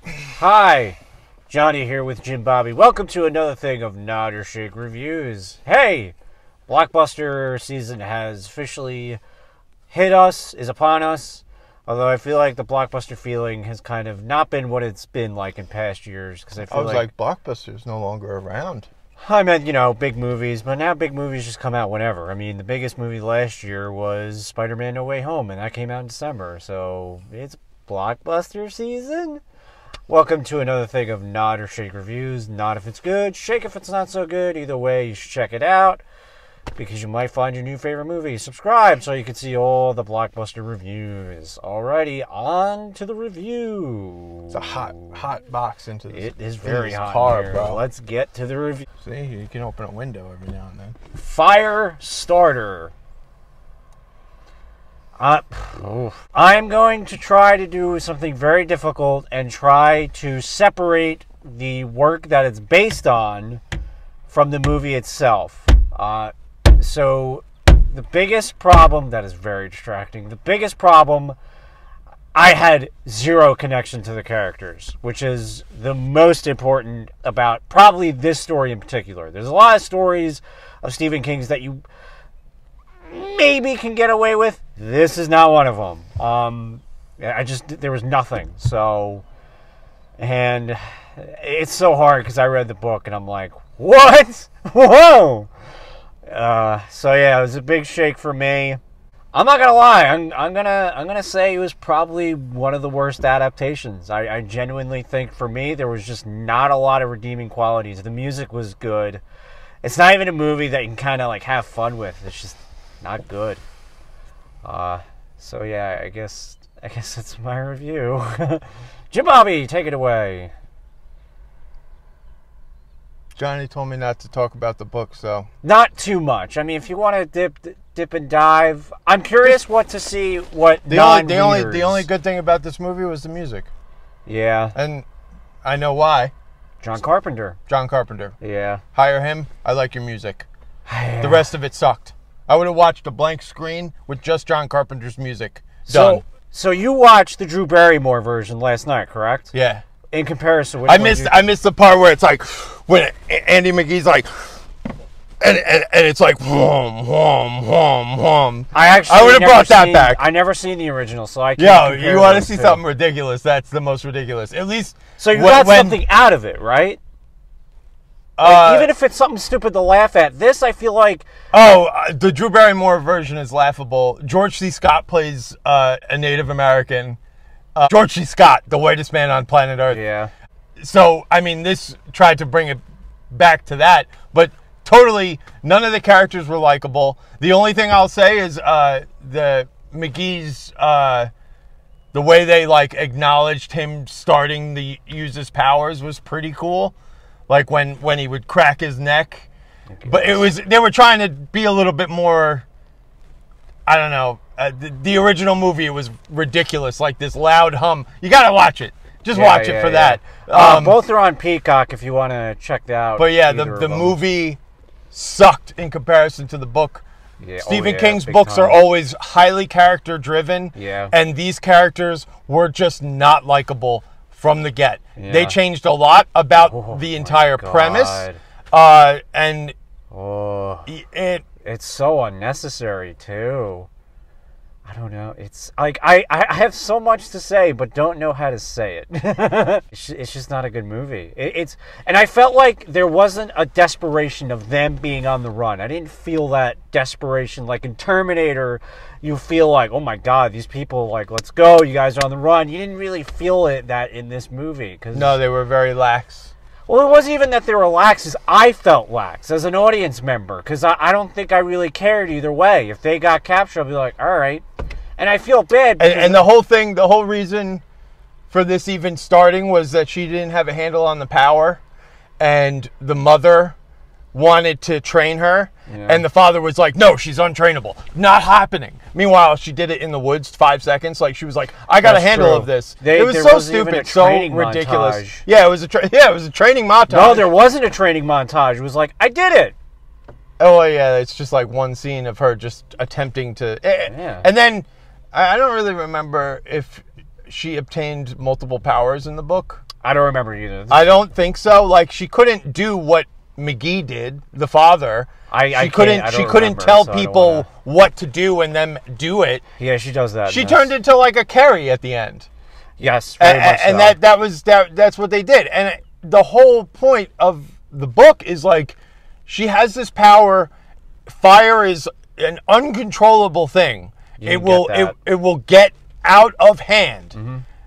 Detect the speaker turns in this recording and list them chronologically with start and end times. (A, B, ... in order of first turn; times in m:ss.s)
0:00.3-0:01.0 A
0:01.5-0:06.1 A
0:06.7-0:09.2 A
0:09.9-0:17.1 A
0:16.7-0:18.9 B
0:19.2-0:29.4 A
0:30.1-0:36.0 A
0:36.8-0:45.2 A
0:44.5-0:47.8 B
0:46.1-0:48.9 A
0:49.0-0:51.0 B
0:51.1-0:52.9 A
0:55.2-1:03.6 A
1:04.3-1:11.4 A
1:12.3-1:21.8 A
1:23.0-1:29.2 A
1:30.2-1:35.5 A
1:36.3-1:38.8 A
1:39.3-1:49.2 A
1:49.8-1:53.6 A
1:54.6-2:00.5 A
2:03.4-2:05.5 B
2:05.6-2:12.1 A
2:10.9-2:13.7 B
2:14.2-2:14.7 A
2:14.7-2:15.0 B
2:15.6-2:16.3 B
2:16.8-2:17.6 A
2:17.7-2:18.3 B
2:18.4-2:18.8 A
2:18.9-2:20.5 B
2:20.9-2:21.5 A
2:21.2-2:26.2 B
2:25.8-2:29.5 A
2:29.5-2:29.8 B
2:30.1-2:31.5 A
2:30.9-2:34.6 B
2:35.4-2:40.2 B
2:38.7-2:42.8 A
2:41.6-2:46.0 B
2:45.2-2:47.0 A
2:48.4-2:48.9 B
2:48.4-2:51.3 A
2:51.5-2:57.2 B
2:57.8-3:00.0 B
2:59.9-3:00.3 A
3:00.8-3:11.3 B
3:12.1-3:16.9 B
3:17.5-3:19.5 B
3:20.0-3:20.5 A
3:20.1-3:22.6 B
3:23.9-3:31.0 B
3:29.3-3:34.2 A
3:33.2-3:34.6 B
3:35.1-3:37.0 B
3:37.4-3:38.8 A
3:37.6-3:49.7 B
3:40.7-3:41.1 A
3:45.2-3:45.6 A
3:46.6-3:48.4 A
3:50.1-3:50.9 A
3:50.9-3:51.4 B
3:51.6-3:53.9 A
3:54.8-4:15.4 A
4:15.1-4:16.5 B
4:16.9-4:24.6 A
4:25.2-4:26.4 A
4:26.0-4:27.8 B
4:28.5-4:31.8 B
4:32.4-4:33.8 B
4:34.3-4:47.5 B
4:35.9-4:36.2 A
4:42.0-4:45.4 A
4:47.1-4:49.7 A
4:50.6-4:59.8 B
4:54.1-4:54.5 A
5:00.0-5:01.1 A
5:00.9-5:09.6 B
5:05.5-5:07.6 A
5:09.8-5:10.9 A
5:10.4-5:12.5 B
5:13.0-5:14.2 A
5:13.4-5:20.7 B
5:21.3-5:27.4 B
5:24.4-5:25.1 A
5:27.3-5:27.6 A